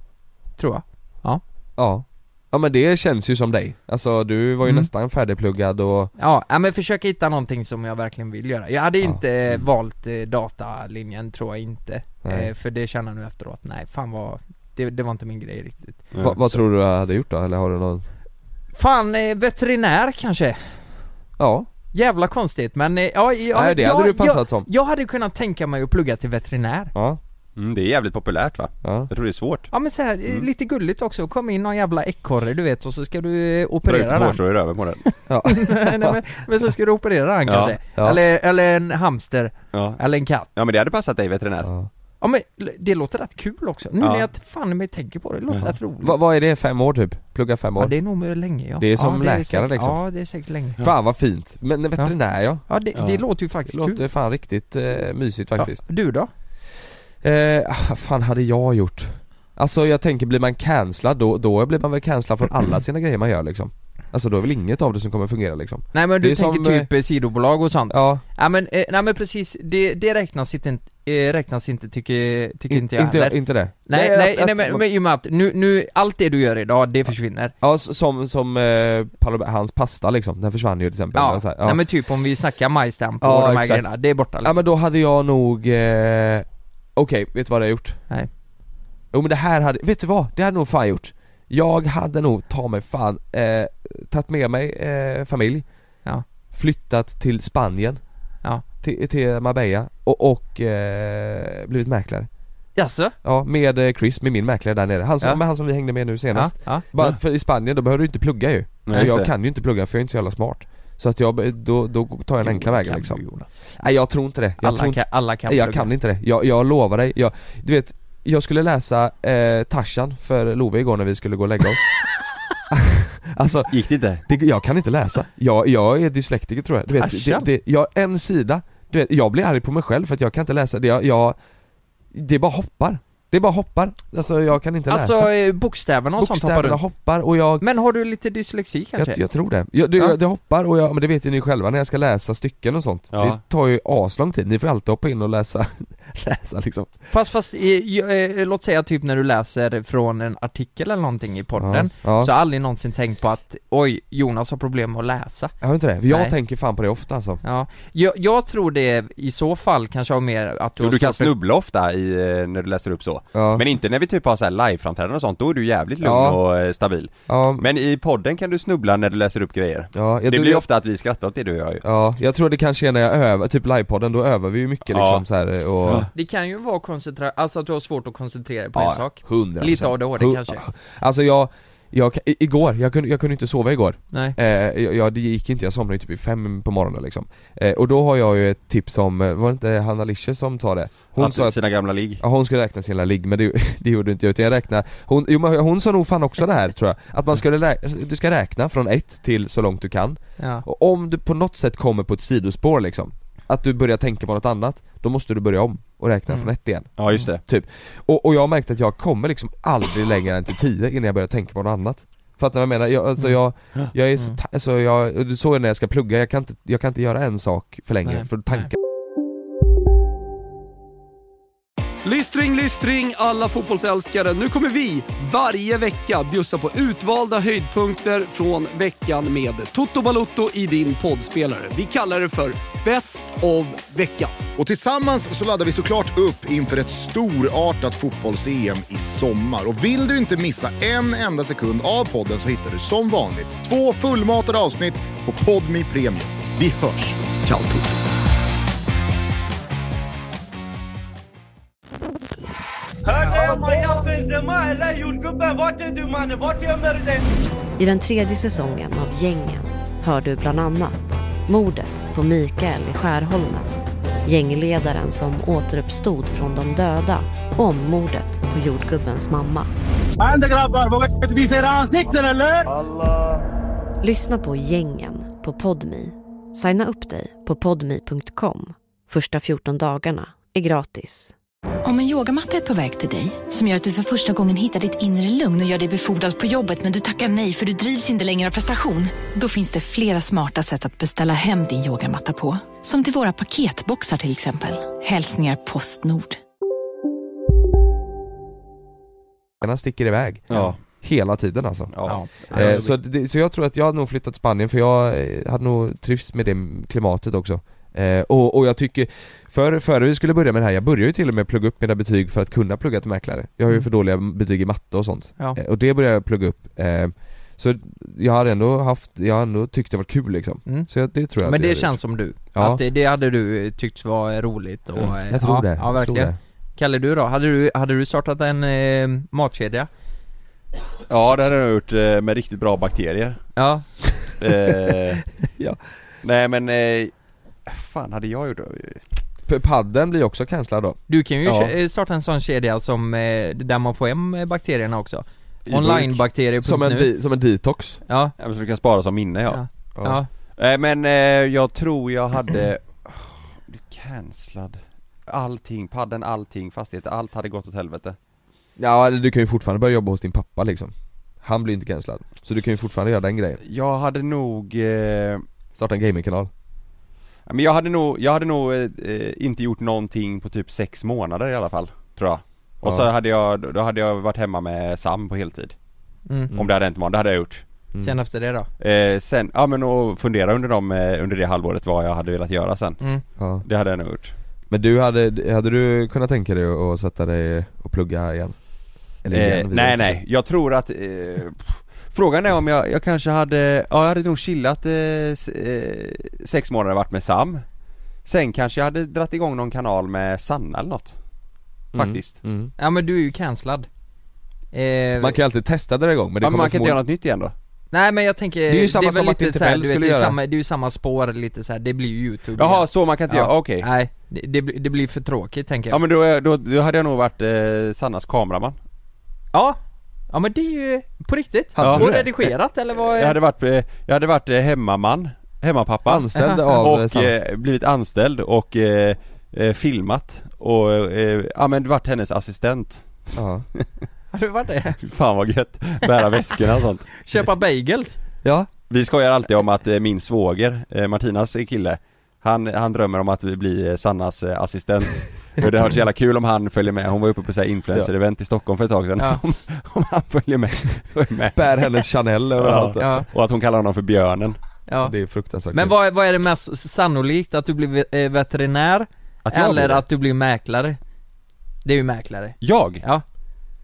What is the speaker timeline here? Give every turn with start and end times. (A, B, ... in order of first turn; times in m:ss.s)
0:00.6-0:01.4 A
0:01.8-0:06.1 B
0:06.2-0:16.2 A
0:12.2-0:12.5 B
0:16.1-0:16.6 C
0:16.2-0:18.0 B
0:18.7-0:20.9 A
0:21.4-0:21.7 B
0:21.9-0:26.9 A
0:23.5-0:24.7 B
0:26.9-0:27.2 B
0:27.6-0:29.7 C
0:28.8-0:29.1 B
0:29.7-0:34.4 A
0:33.8-0:35.0 C
0:35.1-0:40.5 A
0:35.3-0:36.2 B
0:37.5-0:37.7 C
0:39.7-0:40.0 C
0:40.5-0:41.7 C
0:41.6-0:41.9 B
0:42.2-0:46.2 A
0:44.0-0:44.3 C
0:46.0-0:48.0 B
0:47.8-0:50.8 A
0:48.8-0:50.0 B
0:50.8-0:52.6 B
0:52.0-0:54.0 A
0:52.9-0:53.2 C
0:53.7-0:55.8 B
0:55.6-0:56.3 A
0:57.2-1:06.9 B
1:05.9-1:17.5 A
1:07.9-1:08.2 B
1:12.7-1:14.8 B
1:17.6-1:21.8 B
1:21.1-1:24.6 A
1:23.2-1:28.0 B
1:29.1-1:35.6 B
1:36.5-1:38.1 B
1:38.8-1:42.3 B
1:42.7-1:43.1 A
1:43.2-2:01.9 B
1:46.3-1:46.8 A
1:48.9-1:49.3 C
1:52.4-1:53.6 A
1:54.6-1:55.9 A
2:02.7-2:11.4 B
2:03.7-2:04.2 C
2:07.0-2:07.5 A
2:12.1-2:15.3 B
2:14.9-2:16.8 A
2:16.2-2:17.6 B
2:17.6-2:19.2 A
2:19.0-2:26.9 B
2:23.1-2:23.4 C
2:27.1-2:35.5 A
2:31.6-2:32.3 B
2:35.6-2:37.4 B
2:36.1-2:36.3 A
2:37.4-2:41.3 A
2:40.8-2:51.8 C
2:43.3-2:43.6 B
2:46.0-2:46.4 B
2:47.3-2:47.6 B
2:49.9-2:50.6 B
2:51.8-2:56.1 B
2:54.9-2:55.2 C
2:55.8-2:56.1 C
2:56.1-3:00.6 A
2:58.7-3:11.6 B
3:11.1-3:12.2 C
3:12.2-3:38.8 B
3:20.4-3:20.6 A
3:27.0-3:27.4 C
3:38.1-3:38.7 A
3:42.0-3:54.4 D
3:54.6-4:07.2 E
4:07.4-4:07.9 B
4:13.0-4:17.2 F
4:13.3-4:13.6 G
4:17.8-4:23.7 H
4:24.2-4:29.7 H
4:30.2-4:32.7 G
4:32.7-4:33.4 F
4:34.0-4:41.3 H
4:41.8-4:56.4 I
4:59.6-5:02.0 B
5:00.5-5:00.8 C
5:01.9-5:02.7 C
5:02.0-5:02.9 A
5:02.5-5:22.0 B
5:21.4-5:29.9 A
5:22.5-5:22.8 B
5:25.0-5:26.4 B
5:31.1-5:33.4 C
5:33.6-5:33.8 A
5:34.4-5:35.2 C
5:35.5-5:35.8 B
5:36.2-5:37.1 C
5:37.6-5:39.0 C
5:39.5-5:41.0 B
5:41.1-5:47.1 A
5:41.4-5:41.7 C
5:45.7-5:46.0 C
5:45.8-5:48.0 B
5:48.1-5:48.3 A
5:48.4-5:49.6 C
5:49.5-5:50.3 A
5:50.6-5:58.2 C
5:58.8-6:03.6 B
6:03.6-6:05.4 C
6:05.7-6:06.5 B
6:07.5-6:15.7 C
6:12.8-6:13.1 B
6:16.5-6:17.6 C
6:18.0-6:18.7 A
6:18.8-6:23.0 C
6:23.4-6:23.6 B
6:23.6-6:24.3 C
6:24.7-6:28.6 B
6:29.2-6:30.2 B
6:29.3-6:37.6 C
6:38.2-6:41.2 C
6:41.9-6:42.7 B
6:41.9-6:42.3 C
6:42.8-6:43.9 A
6:44.7-6:45.4 A
6:45.2-6:47.0 B
6:46.4-6:47.5 C
6:47.9-6:56.0 A
6:48.7-6:50.4 B
6:52.6-6:53.9 C
6:55.9-6:58.7 C
7:00.3-7:03.4 A
7:01.8-7:02.3 B
7:01.8-7:02.3 C
7:03.0-7:13.8 C
7:06.1-7:07.3 B
7:06.4-7:06.8 A
7:13.3-7:13.6 B
7:14.3-7:15.0 A
7:15.0-7:17.1 C
7:17.2-7:18.2 A
7:18.4-7:18.7 B
7:18.9-7:31.9 C
7:31.5-7:33.2 B
7:32.6-7:34.6 C
7:33.0-7:33.2 A
7:34.9-7:35.1 A
7:35.0-7:35.9 B
7:35.7-7:41.0 A
7:39.4-7:40.0 C
7:41.8-7:43.2 A
7:42.6-7:43.0 C